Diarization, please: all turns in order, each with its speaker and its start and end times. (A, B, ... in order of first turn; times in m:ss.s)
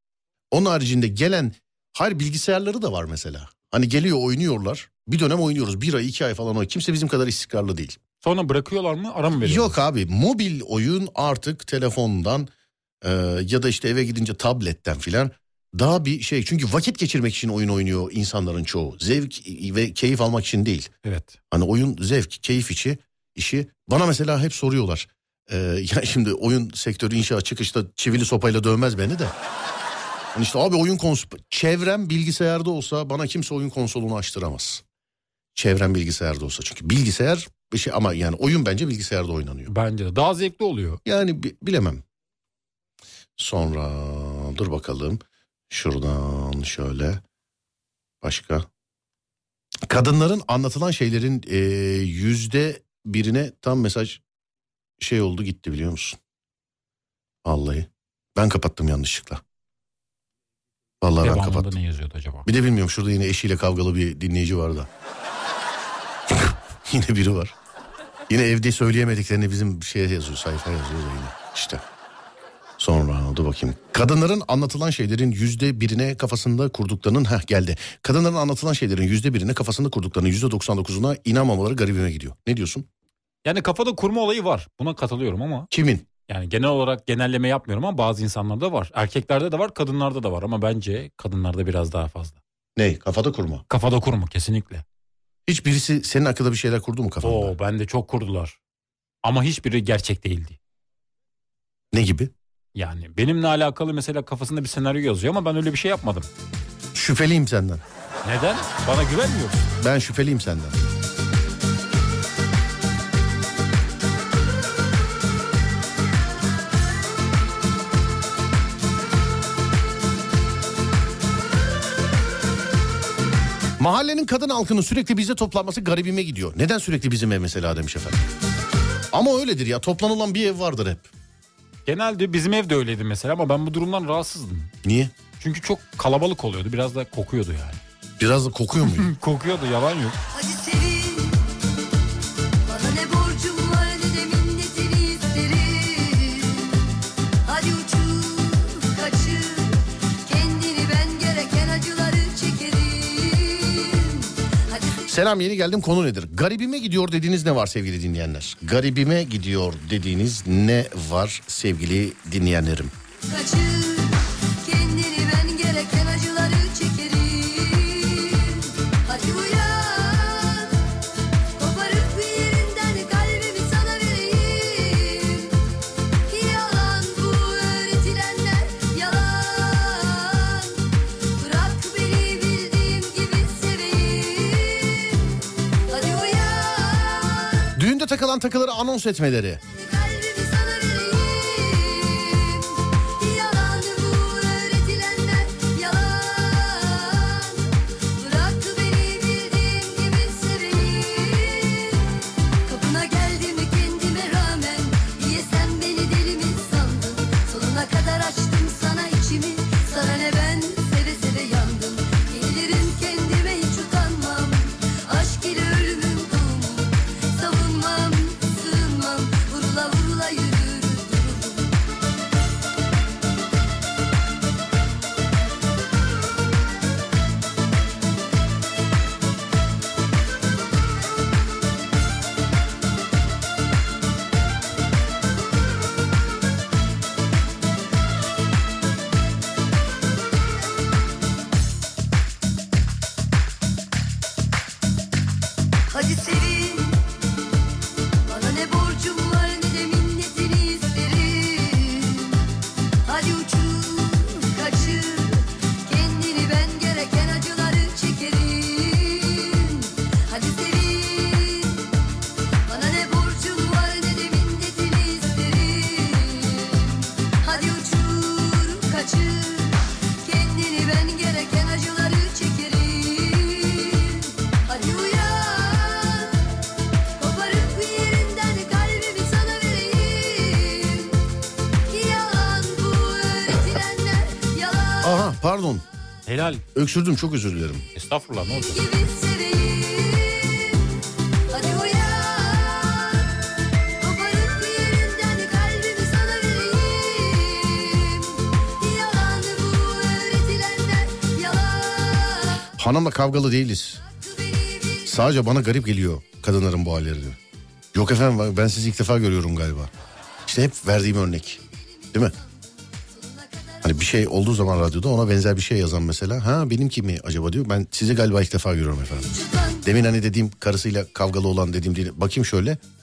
0:00.5-0:08.0 A
0:08.2-0:09.8 B
0:09.3-0:12.5 A
0:13.0-0:20.9 A
0:21.0-0:21.4 B
0:21.5-0:29.3 A
0:30.3-0:34.8 A
0:35.5-0:39.7 A
0:39.7-0:41.0 B
0:41.0-0:42.0 A
0:43.4-0:47.2 A
0:48.2-0:48.7 A
0:49.8-0:54.2 A
0:55.0-0:56.2 A
0:57.4-0:59.4 A
1:01.0-1:01.7 A
1:01.2-1:02.5 B
1:02.4-1:04.9 A
1:06.3-1:07.5 A
1:08.3-1:11.8 A
1:12.8-1:22.9 A
1:23.4-1:25.7 B
1:25.7-1:26.0 A
1:26.3-1:32.4 B
1:32.8-1:33.6 A
1:33.7-1:34.8 B
1:35.5-1:37.5 A
1:37.2-1:38.6 B
1:39.2-1:40.6 B
1:41.9-1:42.3 A
1:42.7-1:46.3 B
1:46.9-1:47.8 A
1:48.2-1:49.7 B
1:49.8-1:50.8 A
2:03.8-2:08.2 A
2:09.1-2:11.1 A
2:11.8-2:14.7 B
2:14.8-2:15.1 A
2:15.4-2:17.8 B
2:18.2-2:19.1 A
2:19.0-2:20.2 B
2:20.3-2:21.4 C
2:22.7-2:26.8 C
2:27.4-2:35.1 C
2:35.1-2:42.9 A
2:43.3-2:50.8 C
2:51.6-2:55.6 C
2:56.3-3:07.7 C
3:07.8-3:09.6 A
3:09.7-3:41.7 C
4:05.9-4:07.0 C
4:08.3-4:12.4 C
4:13.0-4:21.9 C
4:22.7-4:36.5 C
4:37.2-4:41.2 C
4:41.9-4:45.3 C
4:45.0-4:45.8 A
4:46.2-4:46.6 B
4:46.7-4:47.9 A
4:47.9-4:48.9 B
4:48.5-4:50.9 C
4:51.5-4:53.4 C
4:54.0-5:02.7 C
5:02.8-5:04.0 A
5:04.0-5:05.2 C
5:05.0-5:07.4 A
5:07.9-5:09.9 A
5:10.4-5:11.6 A
5:12.0-5:14.0 C
5:13.8-5:19.3 A
5:19.2-5:19.9 C
5:19.8-5:22.8 A